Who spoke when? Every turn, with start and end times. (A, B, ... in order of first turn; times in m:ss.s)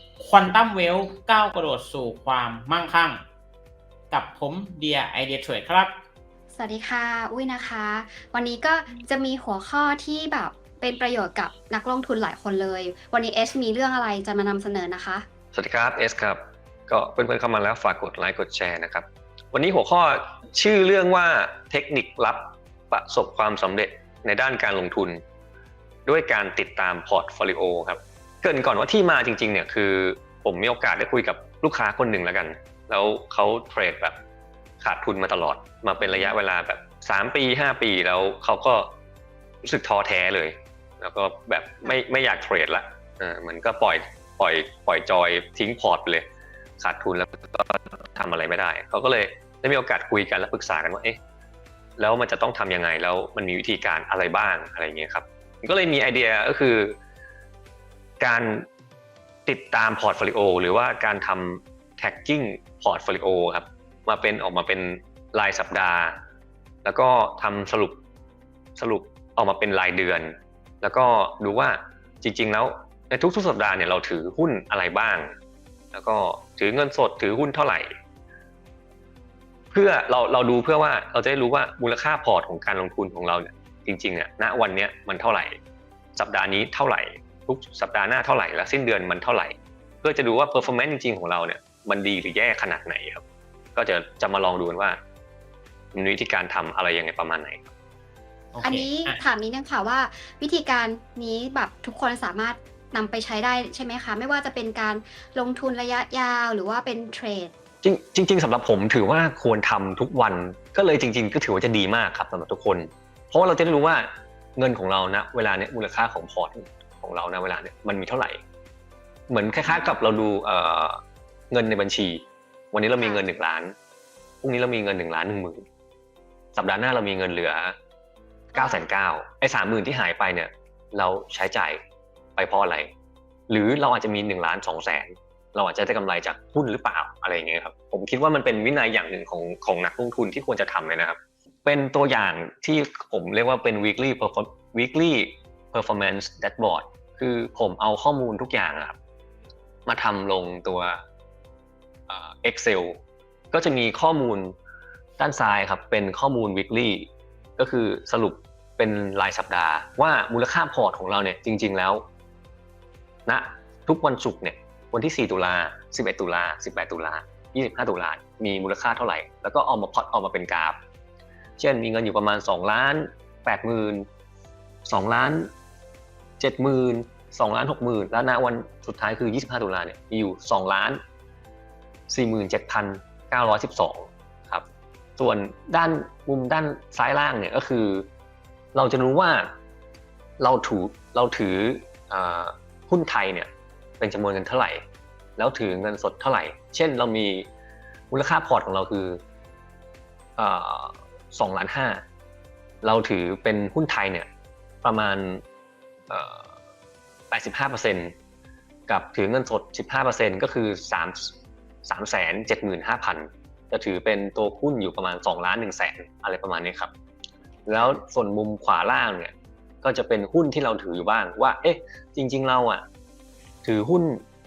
0:00.2-0:03.2 A
0:04.1-0:05.9 A
0:06.5-0:15.2 B
0:15.5-0:25.2 C
0:26.1-0:34.2 C
0:34.8-0:38.9 C
0:36.0-0:36.4 B
0:39.6-0:46.3 C
0:46.8-0:51.2 C
0:52.0-0:57.0 C
0:58.2-0:58.7 C
0:59.5-1:06.2 C
1:06.8-1:08.0 C
1:08.8-1:15.3 C
1:15.9-1:17.9 C
1:19.7-1:25.6 C
1:26.2-1:33.2 C
1:33.8-1:35.0 C
1:35.9-1:37.7 C
1:38.5-1:39.2 A
1:38.6-1:47.5 B
1:47.8-1:58.4 C
1:59.3-2:01.0 C
1:59.6-2:00.0 B
2:01.5-2:03.8 C
2:03.0-2:03.3 B
2:04.4-2:05.6 C
2:06.5-2:07.8 C
2:08.5-2:08.9 B
2:08.6-2:11.8 C
2:12.4-2:12.9 C
2:13.5-2:29.0 C
2:29.9-2:31.0 C
2:32.1-2:33.0 C
2:33.5-2:34.6 C
2:35.2-2:42.0 C
2:43.3-2:50.8 C
2:51.6-2:54.1 C
2:54.9-2:55.5 C
2:56.4-3:01.0 C
3:02.1-3:04.6 C
3:05.2-3:08.1 C
3:08.7-3:09.5 C
3:10.4-3:14.8 C
3:15.4-3:17.5 C
3:18.1-3:19.2 C
3:20.4-3:22.0 C
3:22.8-3:24.3 C
3:24.8-3:25.4 C
3:26.1-3:26.5 C
3:27.3-3:28.2 C
3:28.9-3:31.3 C
3:31.8-3:36.9 C
3:37.7-3:42.8 C
3:43.6-3:44.2 C